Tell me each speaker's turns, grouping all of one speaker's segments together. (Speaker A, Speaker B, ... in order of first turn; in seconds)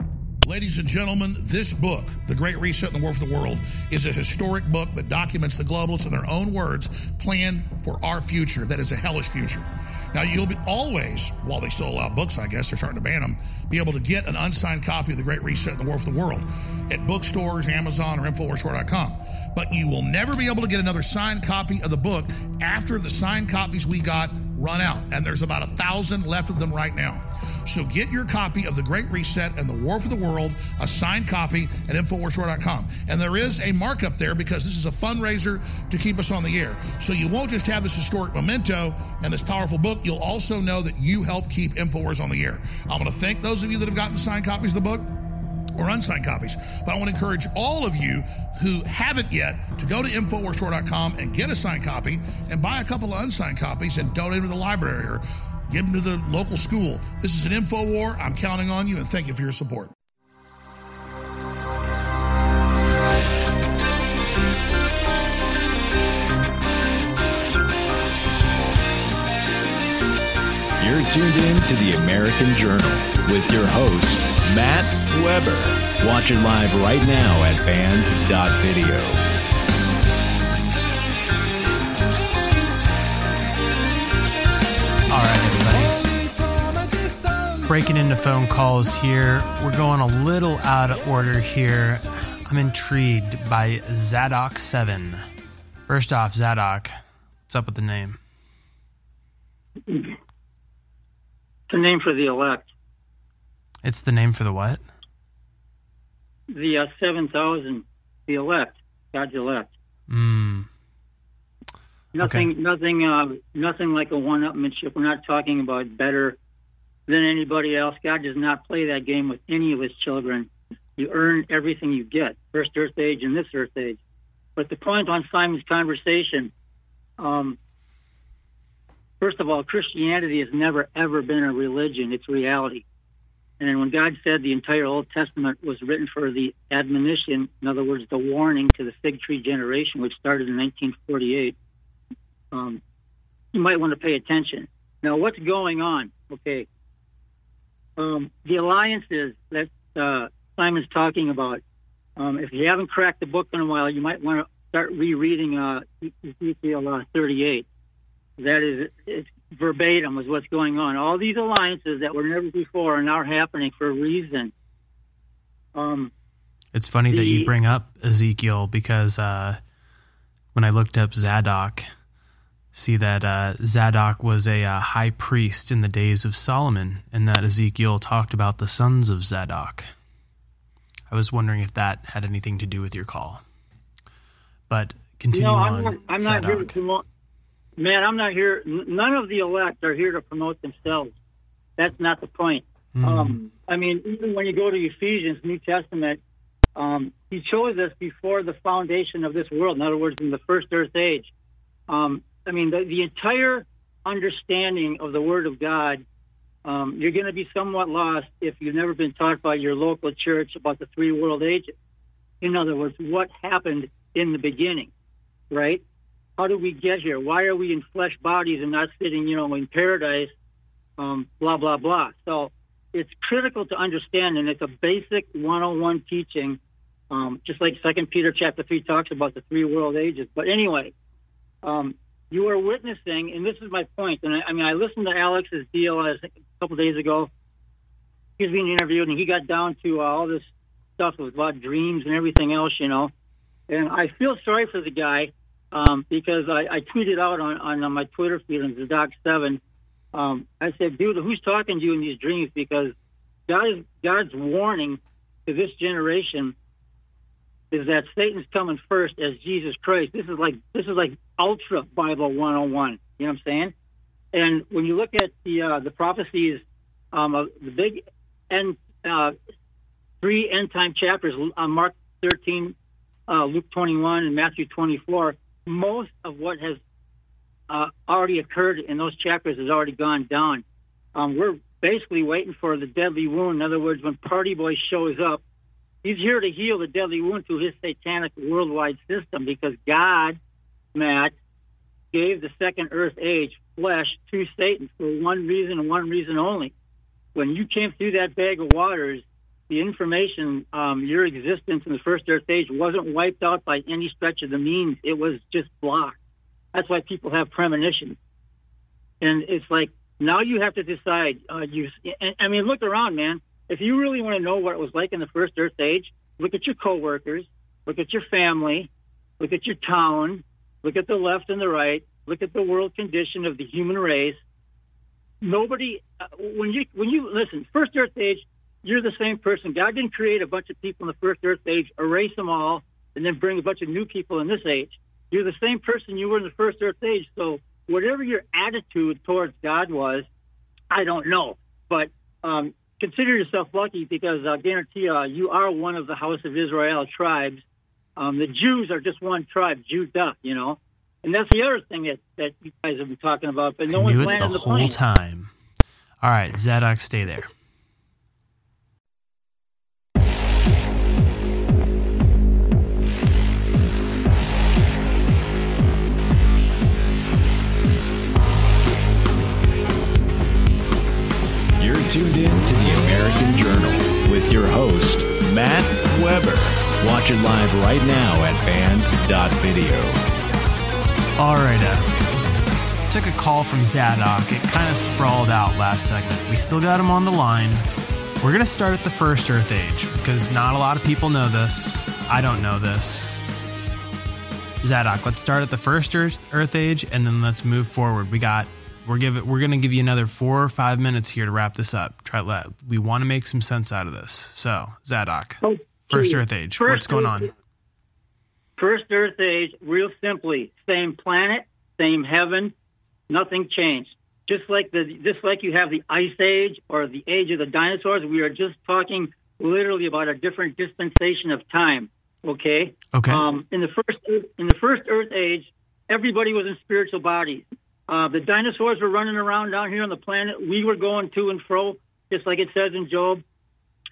Speaker A: 0.4-45.1, 45.8-59.9
Speaker B: 70.8-79.3, 371.8-380.2
Speaker C: 85.1-86.2, 87.6-95.2, 95.9-97.0, 97.5-98.2, 103.8-104.8, 110.1-110.7, 112.2-112.5, 166.7-169.6, 170.6-171.9, 172.7-179.9, 181.1-183.4, 184.7-186.8, 192.9-193.4, 353.9-355.5, 356.2-357.5, 381.4-382.1, 383.1-387.9, 388.4-393.3, 394.8-407.5, 423.1-423.5
Speaker D: 99.9-100.2, 101.7-102.7, 106.5-109.7, 112.2-116.4, 117.1-124.0, 124.6-126.5, 127.2-127.6, 129.2-132.8, 133.6-141.6, 142.5-142.8, 143.5-146.7, 148.0-151.6, 152.2-157.7, 158.4-164.5, 165.8-166.1, 167.1-167.5, 185.3-187.0, 187.8-191.1, 191.8-196.2, 196.8-201.3, 201.9-206.0, 206.7-211.8, 212.4-214.9, 215.5-215.8, 216.4-220.3, 221.0-226.6, 227.1-230.9, 231.6-237.3, 238.4-243.1, 243.7-249.6, 250.1-252.9, 253.5-256.6, 257.7-263.7, 264.3-266.6, 267.1-269.4, 270.2-272.8, 273.3-276.8, 277.7-280.6, 281.1-285.4, 286.0-290.4, 290.9-291.4, 292.1-296.7, 297.4-306.2, 306.7-308.2, 309.2-318.9, 319.4-324.4, 325.4-340.3, 340.9-347.6, 348.2-355.0, 405.6-407.5, 408.8-412.7, 413.3-433.4